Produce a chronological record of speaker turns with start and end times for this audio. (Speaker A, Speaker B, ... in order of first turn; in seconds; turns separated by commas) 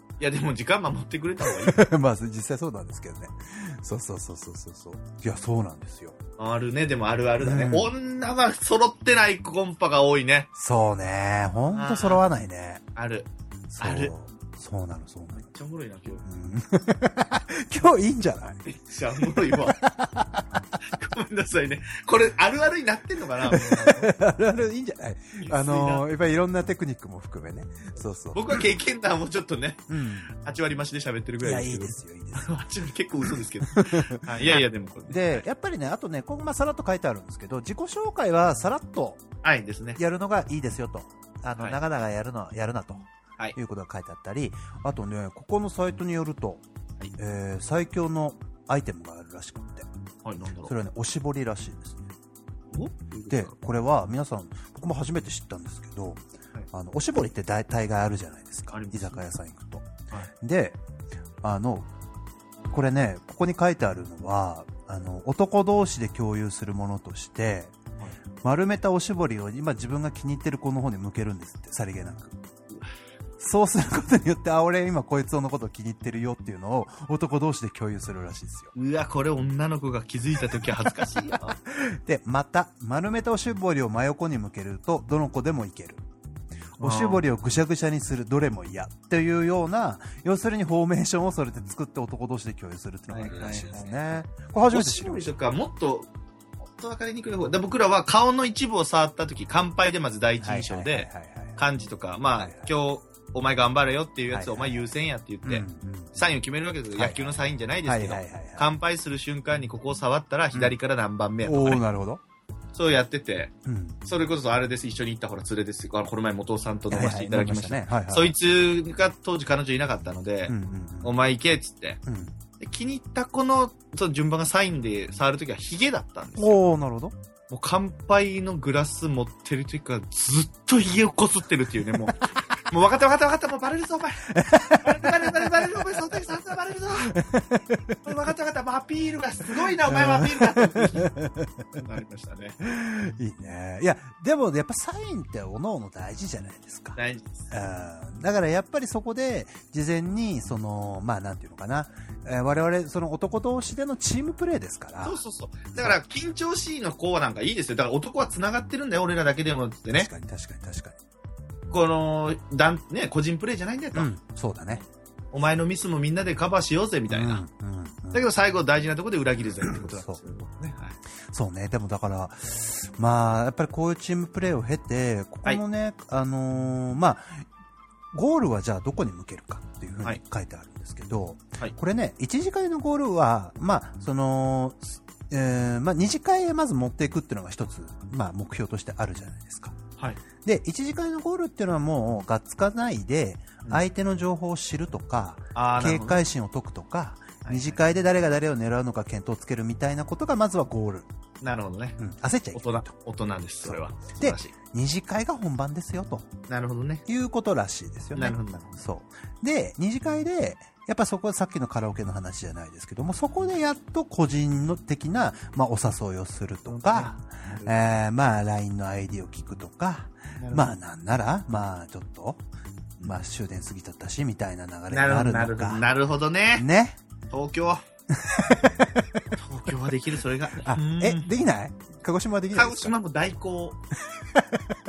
Speaker A: 0.2-1.8, Speaker B: 1.4-6.2, Speaker A: 6.4-10.5, Speaker B: 7.4-7.9, Speaker B: 10.5-12.8, Speaker A: 11.7-12.2, Speaker A: 12.9-14.1, Speaker B: 13.7-15.4, Speaker A: 15.4-16.2, Speaker B: 16.2-18.6, Speaker A: 18.6-19.8, Speaker B: 19.3-20.5, Speaker A: 20.8-24.1, Speaker B: 23.4-28.6, Speaker A: 25.4-26.1, Speaker A: 28.0-35.4, Speaker B: 29.9-30.3, Speaker B: 31.4-32.6, Speaker B: 33.7-39.2, Speaker A: 39.4-40.0, Speaker B: 40.0-46.6, Speaker B: 47.1-49.9, Speaker A: 50.2-50.7, Speaker B: 50.6-52.0, Speaker A: 52.7-53.5, Speaker B: 53.3-60.8, Speaker A: 58.7-59.2, Speaker B: 61.4-61.9, Speaker B: 62.7-67.7, Speaker B: 68.4-72.4, Speaker B: 73.4-78.7, Speaker A: 78.7-81.6, Speaker B: 81.7-86.0, Speaker B: 86.8-95.3, Speaker A: 86.8-87.2, Speaker A: 93.1-94.0, Speaker A: 94.7-96.1, Speaker A: 96.7-111.8, Speaker B: 100.4-101.6, Speaker B: 102.4-102.7, Speaker B: 104.3-104.8, Speaker B: 105.4-106.2, Speaker B: 106.9-108.7, Speaker B: 111.4-112.2, Speaker A: 112.7-113.5, Speaker B: 113.6-114.0, Speaker A: 114.0-122.0, Speaker B: 116.9-118.3, Speaker B: 120.5-121.2, Speaker B: 122.0-122.3, Speaker A: 122.6-126.6, Speaker B: 126.4-127.1, Speaker A: 127.5-137.1, Speaker B: 134.3-135.8, Speaker B: 137.0-138.0, Speaker A: 138.0-141.1, Speaker B: 139.8-141.7, Speaker A: 141.7-142.6, Speaker B: 142.6-147.0, Speaker A: 146.9-147.5, Speaker B: 147.5-155.2, Speaker A: 155.0-160.1, Speaker B: 155.7-156.0, Speaker B: 159.9-161.0, Speaker A: 161.7-164.1, Speaker B: 163.9-164.8, Speaker A: 165.3-167.4, Speaker B: 167.1-168.3, Speaker A: 168.1-171.0, Speaker B: 169.6-170.2, Speaker B: 171.3-177.4, Speaker B: 178.1-189.8, Speaker B: 190.4-201.1, Speaker A: 195.5-196.2, Speaker A: 197.4-197.8, Speaker A: 201.4-202.0, Speaker B: 202.0-202.9, Speaker A: 202.5-204.5, Speaker B: 203.6-206.3, Speaker A: 206.5-207.0, Speaker B: 207.1-222.4, Speaker A: 208.1-208.8, Speaker A: 216.7-217.8, Speaker A: 220.4-220.7, Speaker B: 223.0-225.9, Speaker A: 224.9-226.7, Speaker B: 226.5-227.0, Speaker A: 227.3-227.8, Speaker B: 228.2-228.7, Speaker A: 229.3-231.3, Speaker B: 230.6-232.9, Speaker A: 232.5-233.8, Speaker B: 234.2-234.6